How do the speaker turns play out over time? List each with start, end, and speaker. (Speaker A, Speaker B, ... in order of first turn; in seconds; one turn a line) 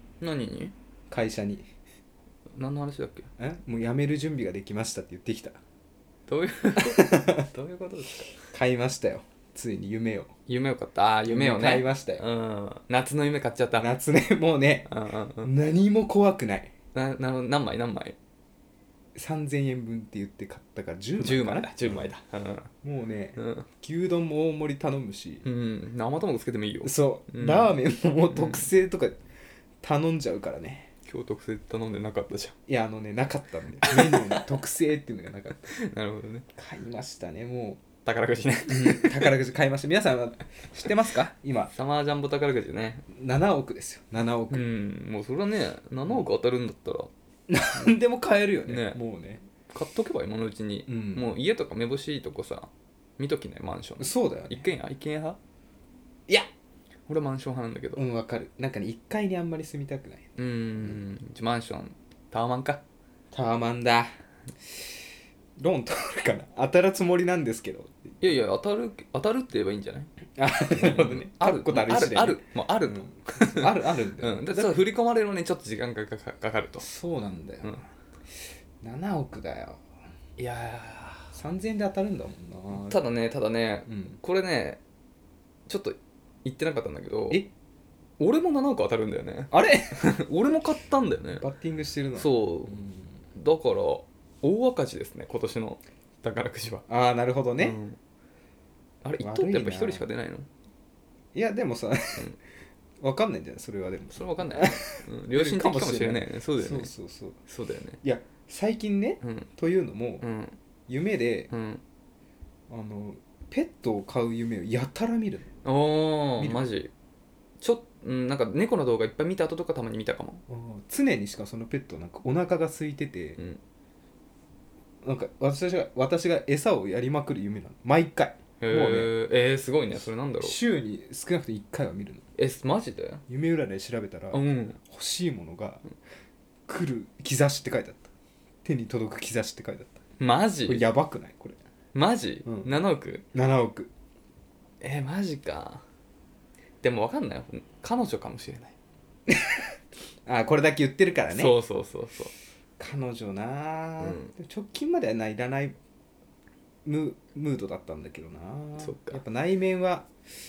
Speaker A: 0.2-0.7
Speaker B: 1.1-1.6
Speaker A: 2.5-3.3
Speaker B: 3.4-5.6
Speaker A: 6.3-8.4
Speaker B: 6.8-7.5
Speaker B: 8.5-10.3
Speaker A: 10.5-13.9
Speaker B: 11.3-12.2
Speaker B: 13.8-14.9
Speaker A: 14.9-15.5
Speaker B: 15.4-16.7
Speaker A: 16.9-18.2
Speaker B: 19.1-22.1
Speaker A: 21.2-22.7
Speaker B: 22.8-25.4
Speaker A: 23.4-23.6
Speaker A: 25.4-27.8
Speaker B: 26.8-29.2
Speaker A: 28.3-28.7
Speaker B: 29.8-30.9
Speaker A: 31.1-32.5
Speaker B: 32.7-35.7
Speaker A: 33.8-34.4
Speaker A: 35.7-36.5
Speaker B: 36.5-37.8
Speaker A: 38.0-39.3
Speaker B: 38.7-41.7
Speaker A: 41.7-43.0
Speaker B: 43.1-44.6
Speaker A: 44.5-47.1
Speaker B: 47.5-49.4
Speaker A: 48.7-49.0
Speaker A: 49.7-55.4
Speaker B: 50.9-51.3
Speaker B: 54.0-54.7
Speaker A: 57.1-58.0
Speaker B: 58.0-61.0
Speaker A: 60.4-62.8
Speaker B: 63.3-64.1
Speaker B: 65.6-68.1
Speaker A: 68.2-70.1
Speaker B: 70.4-74.8
Speaker A: 70.7-76.8
Speaker B: 76.8-77.8
Speaker B: 78.8-79.8
Speaker A: 80.4-81.3
Speaker B: 81.3-83.0
Speaker A: 82.8-84.8
Speaker B: 83.9-84.2
Speaker A: 85.7-87.4
Speaker A: 88.2-91.4
Speaker B: 89.5-90.1
Speaker B: 91.4-93.1
Speaker A: 92.2-92.8
Speaker A: 93.3-96.8
Speaker B: 96.9-97.8
Speaker A: 97.6-98.0
Speaker A: 99.0-100.5
Speaker B: 99.2-100.0
Speaker B: 101.3-102.3
Speaker B: 103.0-107.4
Speaker A: 104.1-106.9
Speaker A: 107.5-108.0
Speaker B: 108.0-110.3
Speaker A: 109.2-109.5
Speaker A: 110.2-110.6
Speaker B: 110.9-111.5
Speaker A: 111.5-111.8
Speaker B: 112.7-115.5
Speaker A: 115.6-116.9
Speaker B: 116.4-116.7
Speaker A: 117.6-120.4
Speaker B: 120.5-123.4
Speaker B: 125.0-129.1
Speaker A: 128.6-130.6
Speaker B: 130.4-132.2
Speaker A: 132.4-133.2
Speaker B: 133.3-135.8
Speaker A: 134.3-134.8
Speaker B: 136.7-138.1
Speaker B: 138.6-140.0
Speaker A: 140.2-140.9
Speaker B: 140.7-141.6
Speaker A: 141.9-143.2
Speaker B: 142.4-142.7
Speaker B: 143.3-143.9
Speaker A: 144.8-145.8
Speaker A: 146.8-148.7
Speaker B: 149.3-149.6
Speaker B: 150.2-151.6
Speaker A: 151.3-152.3
Speaker B: 152.8-155.8
Speaker A: 154.0-154.3
Speaker B: 156.8-160.1
Speaker A: 158.8-159.2